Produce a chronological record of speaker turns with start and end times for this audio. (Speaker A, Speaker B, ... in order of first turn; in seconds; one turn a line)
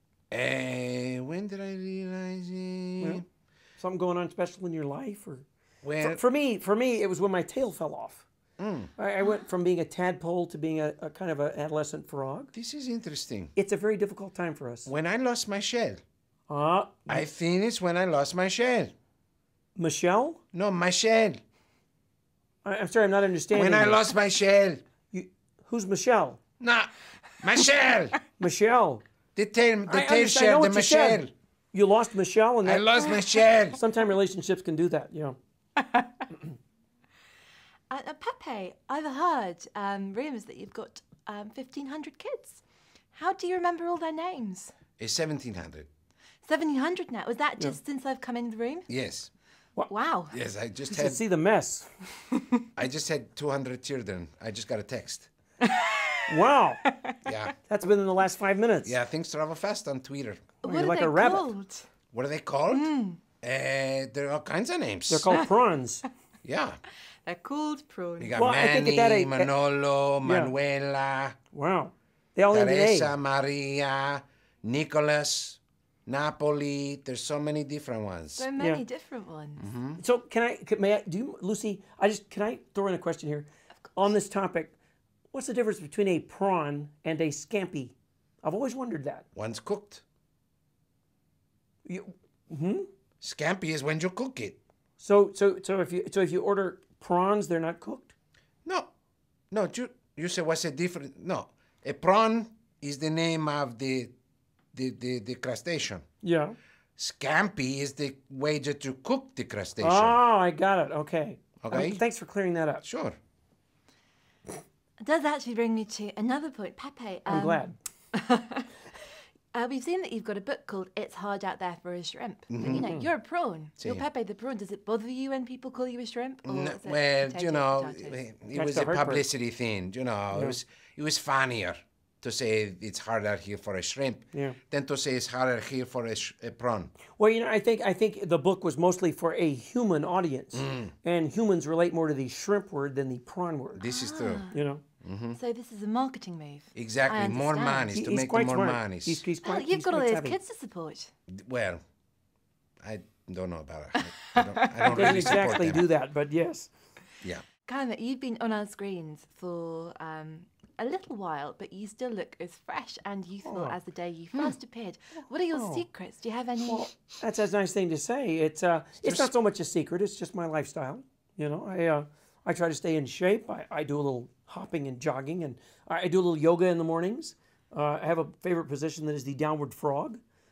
Speaker A: 0.3-3.2
Speaker B: 3.8-5.5
Speaker A: 5.8-6.2
Speaker B: 6.0-8.2
Speaker A: 8.6-8.9
Speaker B: 9.0-12.5
Speaker A: 12.5-13.5
Speaker B: 13.6-14.9
Speaker A: 14.8-16.0
Speaker B: 16.5-17.2
Speaker A: 17.1-18.9
Speaker B: 19.8-20.4
Speaker A: 20.5-21.4
Speaker B: 22.6-24.0
Speaker A: 23.5-24.8
Speaker B: 25.1-26.4
Speaker A: 26.6-28.1
Speaker B: 28.4-29.0
Speaker A: 29.3-31.3
Speaker B: 29.9-32.9
Speaker A: 32.6-33.8
Speaker C: 33.0-33.3
Speaker B: 33.7-35.4
Speaker C: 37.9-42.6
Speaker C: 43.1-44.7
Speaker A: 45.0-45.9
Speaker C: 46.4-48.9
Speaker A: 48.9-49.3
Speaker C: 49.9-50.3
Speaker A: 50.3-51.2
Speaker B: 50.9-52.0
Speaker A: 52.8-55.3
Speaker C: 55.7-56.2
Speaker B: 56.3-56.8
Speaker C: 56.8-57.3
Speaker A: 57.2-57.5
Speaker B: 57.7-59.0
Speaker A: 58.8-60.5
Speaker C: 60.6-61.9
Speaker B: 60.6-61.5
Speaker A: 62.1-62.9
Speaker C: 62.7-63.2
Speaker A: 63.4-65.3
Speaker B: 65.1-66.0
Speaker A: 66.4-66.8
Speaker C: 67.2-68.4
Speaker A: 68.2-71.3
Speaker B: 68.3-69.5
Speaker B: 70.2-70.5
Speaker B: 71.5-73.1
Speaker A: 72.5-78.5
Speaker C: 78.4-79.7
Speaker B: 78.6-78.8
Speaker A: 79.6-80.0
Speaker B: 79.9-84.7
Speaker B: 85.3-89.2
Speaker A: 89.3-90.0
Speaker B: 91.8-92.9
Speaker A: 93.2-94.6
Speaker B: 95.0-98.1
Speaker A: 98.6-98.9
Speaker A: 99.5-104.1
Speaker A: 104.7-106.0
Speaker B: 106.2-106.5
Speaker A: 107.0-110.2
Speaker B: 109.8-112.8
Speaker A: 111.6-112.0
Speaker A: 112.8-113.2
Speaker C: 115.0-118.8
Speaker B: 117.3-117.8
Speaker C: 119.5-128.2
Speaker A: 122.5-122.9
Speaker B: 122.7-123.1
Speaker A: 123.8-124.0
Speaker A: 126.4-136.9
Speaker B: 128.5-129.2
Speaker B: 130.3-130.6
Speaker B: 134.3-134.6
Speaker B: 137.1-143.8
Speaker A: 140.5-140.9
Speaker A: 143.7-144.5
Speaker C: 143.8-144.6
Speaker B: 144.5-144.8
Speaker A: 145.0-145.4
Speaker C: 145.3-147.9
Speaker A: 146.7-149.3
Speaker B: 147.9-150.4
Speaker C: 149.4-151.1
Speaker A: 151.3-151.8
Speaker A: 152.8-155.9
Speaker C: 154.3-155.6
Speaker B: 154.9-156.7
Speaker C: 157.6-166.9
Speaker B: 163.4-163.8
Speaker B: 165.5-165.8
Speaker B: 166.6-180.2
Speaker A: 169.0-169.3